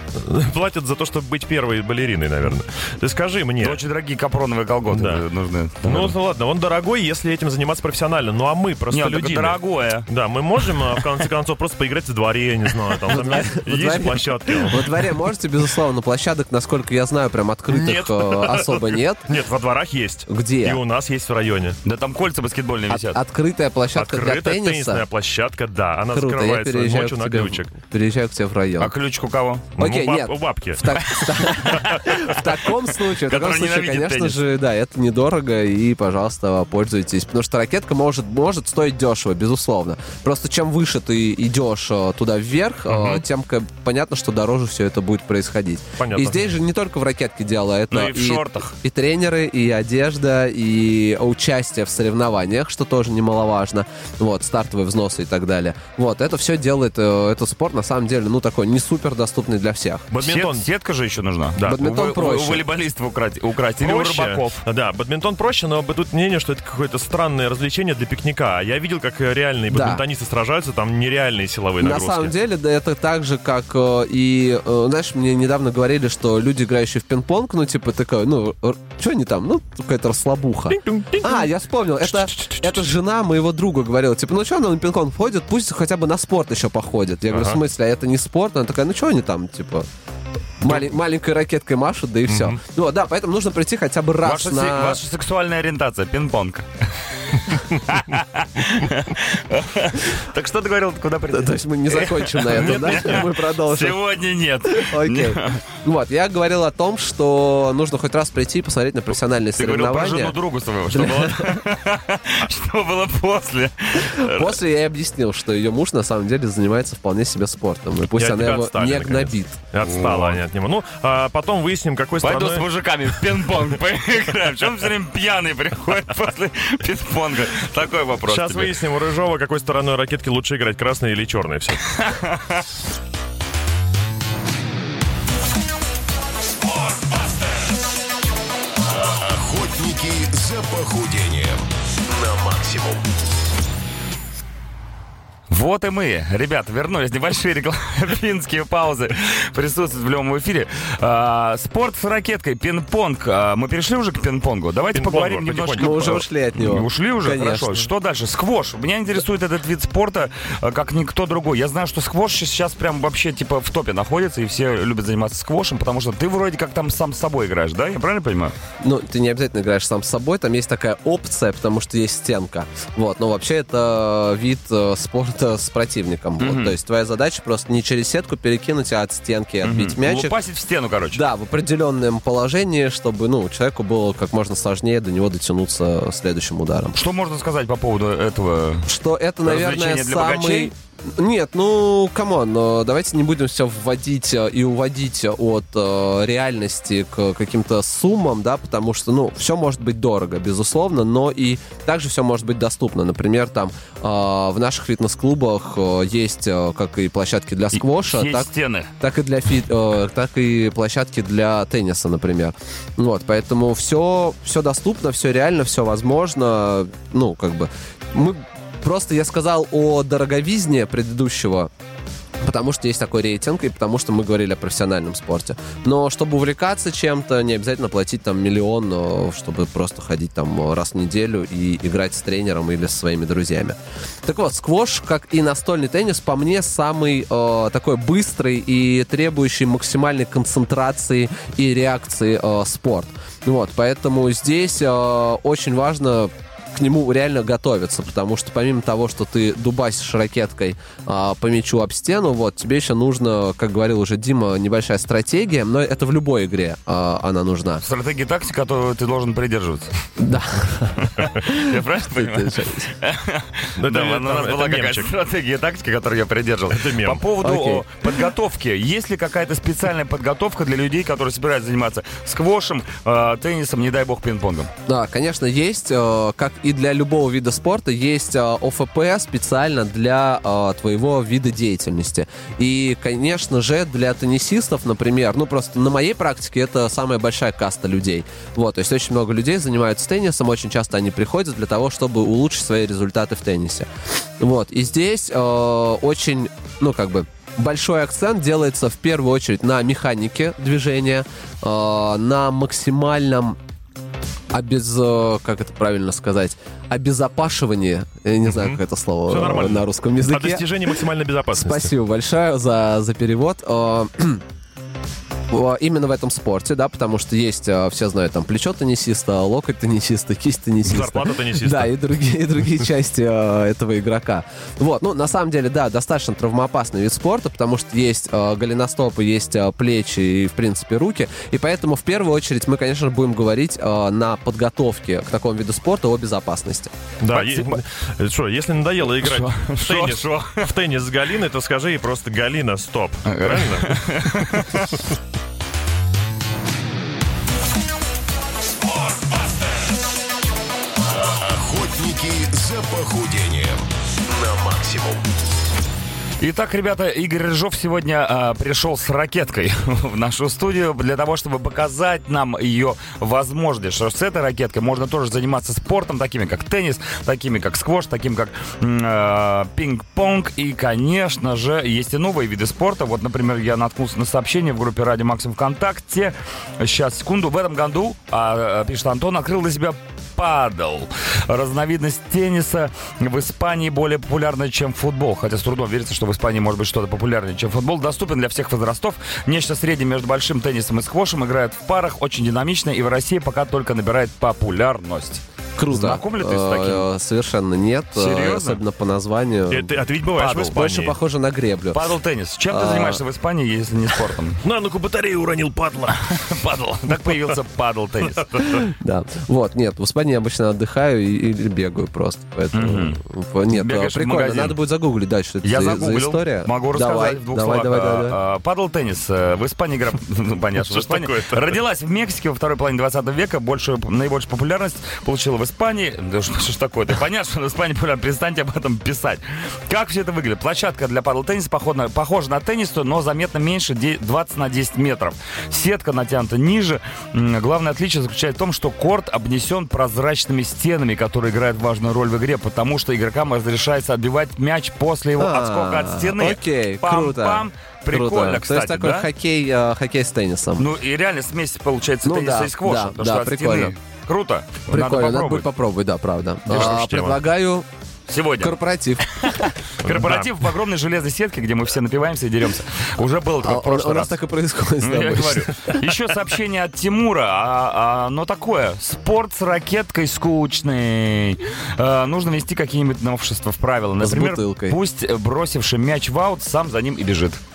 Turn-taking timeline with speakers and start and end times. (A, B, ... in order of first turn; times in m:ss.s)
0:00.1-0:03.8 A
0:03.6-0:06.1 B
0:04.9-0:05.2 A
0:05.8-0:15.1 A
0:08.9-0:10.1 B
0:13.1-0:19.3 C
0:17.7-0:21.8 A
0:20.3-0:20.8 C
0:21.8-0:23.2 B
0:22.9-0:25.0 C
0:23.9-0:27.7 A
0:26.1-0:28.9 C
0:28.8-0:29.7 B
0:29.8-0:32.2 A
0:29.8-1:00.1 C
0:31.1-0:32.4 B
0:33.0-0:34.4 B
0:42.9-0:43.2 A
0:46.0-0:46.5 A
0:47.9-0:48.7 B
1:00.1-1:00.7 A
1:00.2-1:04.6 B
1:01.6-1:02.6 C
1:03.8-1:12.3 A
1:09.7-1:10.0 C
1:11.8-1:29.8 C
1:20.7-1:21.5 A
1:22.0-1:22.9 A
1:27.3-1:27.6 A
1:30.6-1:35.0 C
1:32.3-1:32.6 A
1:34.2-1:45.6 B
1:41.3-1:44.0 C
1:42.6-1:43.2 A
1:44.7-1:50.4 C
1:49.6-1:54.6 B
1:50.9-1:51.6 C
1:54.0-1:59.6 C
1:58.1-2:02.7 A
1:59.8-2:00.4 B
2:02.2-2:08.7 B
2:08.2-2:11.9 A
2:11.9-2:12.6 B
2:18.8-2:23.0 D
2:25.5-2:48.5 B
2:34.9-2:36.2 A
2:35.8-2:37.9 C
2:48.8-3:00.3 C
2:56.4-2:56.8 B
2:59.6-3:01.2 B
3:01.1-3:07.0 C
3:06.9-3:08.9 B
3:08.8-3:41.7 C
3:09.4-3:10.7 B
3:27.7-3:28.9 B
3:42.4-4:17.8 C
4:17.8-4:19.9 B
4:20.2-4:22.9 C
4:20.9-4:34.7 B
4:23.8-4:25.1 A
4:26.7-4:27.2 A
4:27.4-4:27.8 C
4:34.9-4:53.9 C
4:54.4-5:03.6 C
5:04.5-5:10.7 C
5:08.5-5:11.9 A
5:11.5-5:14.4 C
5:15.5-5:36.9 C
5:20.8-5:21.9 A
5:37.2-5:44.7 A
5:37.3-5:37.8 B
5:39.2-5:40.7 B
5:43.2-5:44.9 B
5:51.0-5:55.2 D
5:56.4-6:37.0 B
6:35.8-6:42.1 C
6:38.1-6:38.8 B
6:39.7-6:41.2 A
6:41.9-6:44.6 B
6:42.7-6:43.2 C
6:44.6-6:46.2 A
6:46.2-6:48.8 B
6:48.6-6:58.4 C
6:52.7-6:53.2 B
6:53.7-6:54.8 B
6:55.6-7:29.3 B
7:00.8-7:01.8 A
7:25.4-7:30.9 C
7:30.8-7:35.7 B
7:32.2-7:33.9 C
7:34.9-7:37.9 C
7:36.7-7:37.4 A
7:38.3-7:44.4 B
7:38.6-7:39.7 C
7:40.0-7:40.5 A
7:43.6-7:46.0 C
7:45.0-7:57.6 B
7:54.2-7:55.0 C